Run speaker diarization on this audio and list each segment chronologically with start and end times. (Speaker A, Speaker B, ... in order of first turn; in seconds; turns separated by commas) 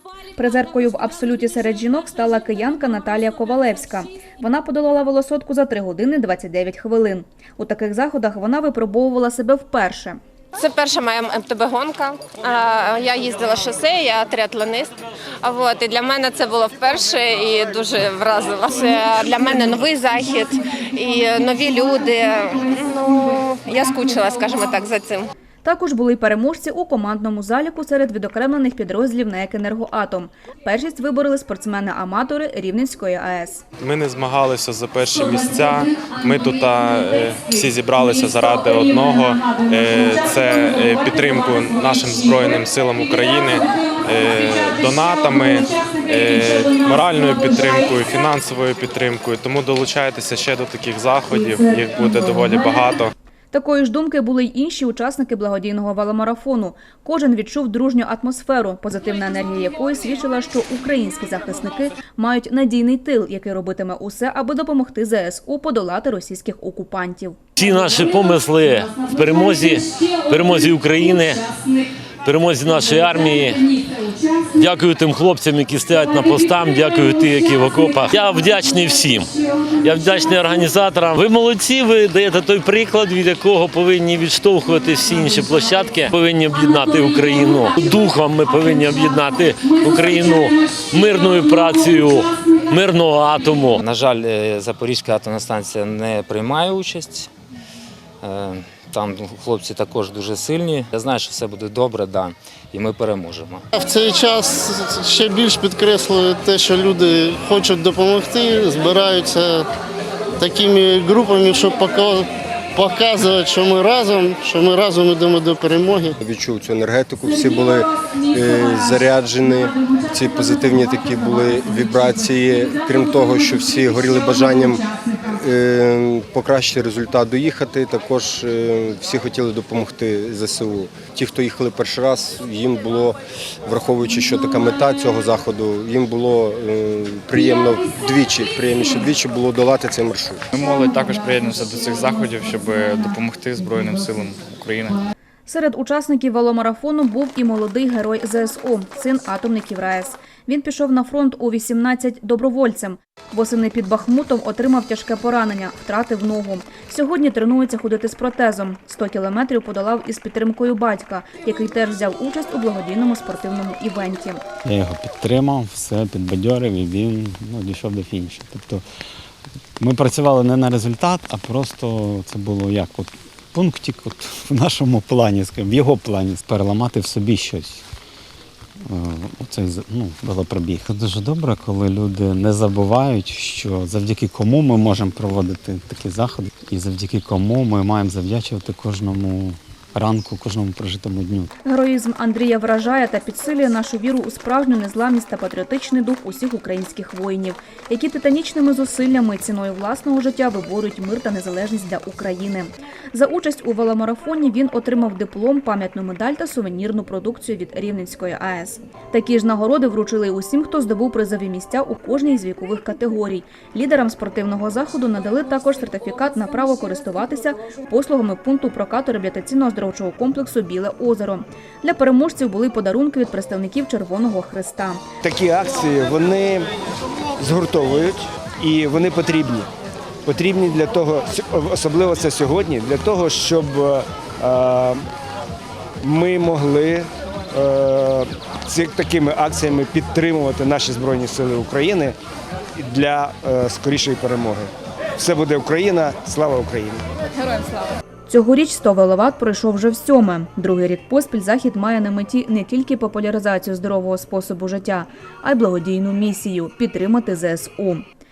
Speaker A: 0.4-10.2, Speaker B: 10.6-25.3, Speaker A: 25.6-33.6, Speaker C: 33.8-53.1, Speaker A: 53.5-67.4, Speaker D: 67.6-71.5, Speaker D: 72.2-93.8, Speaker E: 93.8-97.3, Speaker E: 98.2-103.6, Speaker F: 103.7-109.7, Speaker F: 110.4-116.1, Speaker G: 116.2-140.4, Speaker H: 140.5-145.0, Speaker A: 145.5-164.4, Speaker I: 164.7-168.8, Speaker I: 169.8-177.8, Speaker I: 178.9-191.5, Speaker A: 191.7-225.0, Speaker J: 225.2-226.7, Speaker J: 227.4-229.7, Speaker J: 230.2-235.0, Speaker J: 236.0-242.2, Speaker J: 242.8-247.0, Speaker A: 248.3-258.0